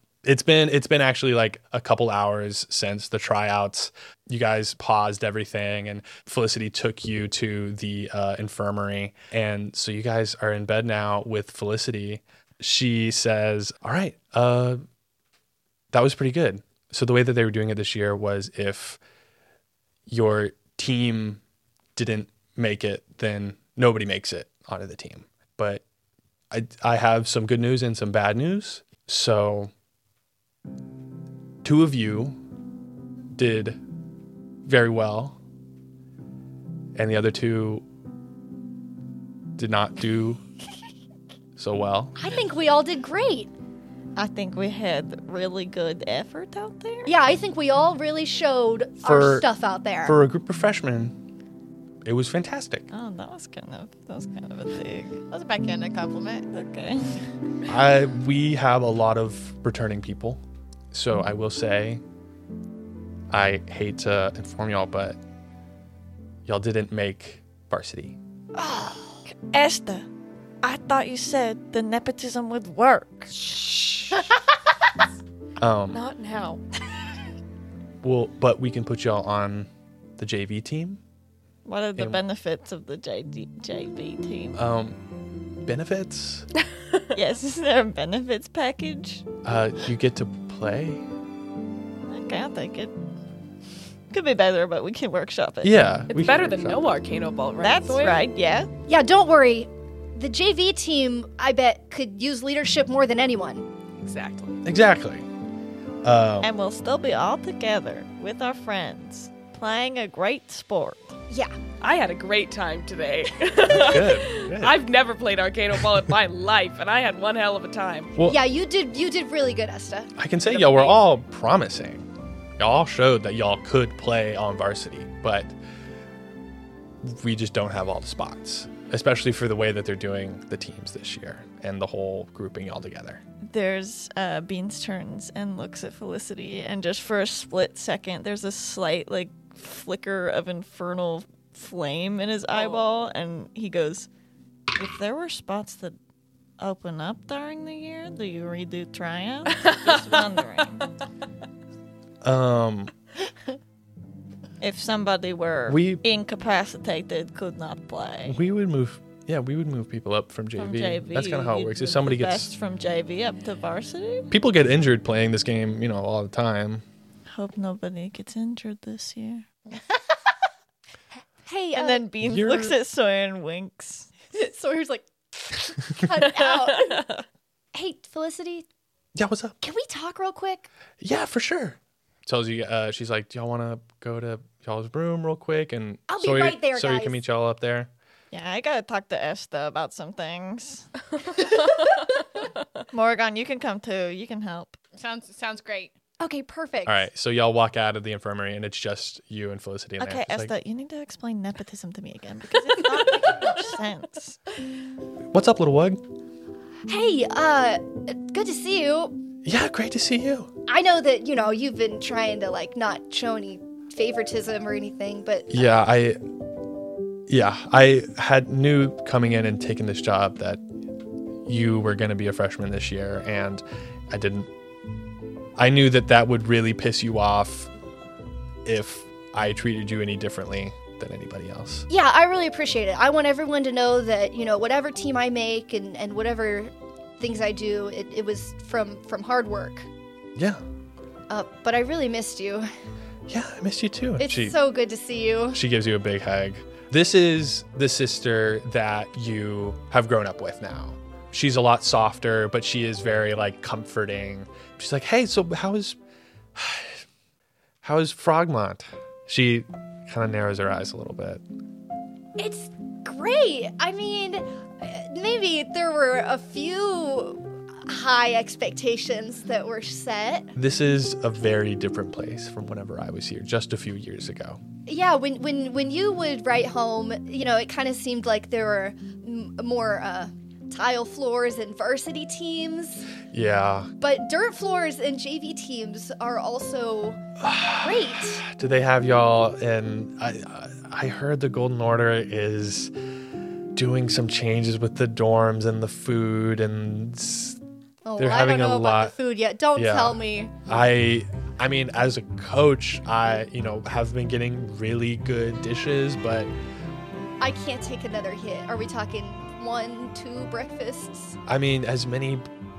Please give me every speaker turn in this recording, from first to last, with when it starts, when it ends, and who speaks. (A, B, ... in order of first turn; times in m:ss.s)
0:00.2-0:14.8 A
0:15.9-0:19.0 A
0:20.1-0:21.4 A
0:22.0-0:25.8 A
0:26.5-0:29.7 A
0:31.6-0:32.4 A
0:33.3-0:33.8 A
0:34.6-0:35.4 A
0:36.9-0:37.8 A
0:39.6-0:40.4 A
0:41.6-0:42.2 A
0:42.2-0:43.5 B
0:44.2-0:47.1 C
0:47.0-0:50.2 B
0:49.0-0:49.5 A
0:50.0-0:51.1 A
0:52.0-0:52.9 A
0:52.9-0:55.2 C
0:55.3-0:56.5 D
0:56.5-0:57.2 C
0:57.7-1:00.4 A
1:00.9-1:02.0 A
1:03.3-1:05.2 A
1:06.4-1:08.2 A
1:08.6-1:10.1 C
1:10.6-1:13.4 C
1:13.4-1:14.2 E
1:15.6-1:16.0 A
1:15.9-1:16.6 E
1:18.0-1:21.0 A
1:21.6-1:24.6 C
1:22.0-1:22.2 A
1:24.5-1:25.0 A
1:25.6-1:26.5 A
1:27.1-1:29.2 C
1:29.4-1:31.0 A
1:32.0-1:32.9 C
1:34.1-1:35.8 C
1:35.6-1:36.8 A
1:36.1-1:38.2 E
1:37.6-1:38.7 C
1:38.9-1:43.7 B
1:44.0-1:44.6 E
1:44.6-1:45.2 A
1:46.0-1:46.5 A
1:46.4-1:51.2 C
1:51.8-1:58.2 E
1:53.6-1:54.8 A
1:58.2-2:00.1 B
2:00.2-2:02.1 A
2:00.5-2:01.0 E
2:02.6-2:05.5 A
2:07.0-2:13.2 A
2:13.4-2:24.1 C
2:22.5-2:22.8 E
2:24.8-2:26.0 C
2:26.6-2:30.9 C
2:29.5-2:30.3 E
2:32.2-2:32.9 A
2:34.6-2:38.4 C
2:35.7-2:36.0 A
2:38.2-2:42.5 A
2:40.6-2:44.3 C
2:44.3-2:46.8 A
2:47.3-2:49.4 C
2:51.4-2:52.1 B
2:51.7-2:54.1 C
2:52.2-2:52.7 A
2:54.3-2:57.1 B
2:56.5-2:57.2 E
2:57.7-2:58.6 B
2:59.1-2:59.6 A
2:59.6-3:00.7 B
3:01.0-3:07.9 A
3:06.1-3:07.2 B
3:08.3-3:10.9 C
3:12.9-3:14.8 C
3:15.0-3:15.9 D
3:16.2-3:17.0 B
3:16.8-3:20.5 A
3:20.0-3:24.4 C
3:25.3-3:26.0 A
3:26.9-3:29.2 B
3:29.4-3:30.5 A
3:30.7-3:35.7 B
3:35.5-3:36.2 A
3:37.3-3:40.6 A
3:41.4-3:44.5 A
3:45.6-3:47.7 A
3:48.6-3:51.9 A
3:51.9-3:59.9 B
4:00.4-4:00.6 A
4:01.3-4:02.7 B
4:03.3-4:04.6 A
4:04.2-4:05.6 B
4:05.5-4:16.0 A
4:16.5-4:17.0 A
4:17.8-4:21.4 A
4:22.4-4:30.5 B
4:30.6-4:34.6 A
4:34.8-4:43.1 B
4:43.3-4:43.9 A
4:44.0-4:47.2 B
4:47.4-4:52.9 A
4:47.8-4:48.4 B
4:53.7-4:57.6 A
4:58.0-5:00.5 B
4:58.2-4:59.1 A
4:59.7-5:06.5 A
5:07.4-5:11.4 B
5:11.5-5:12.4 A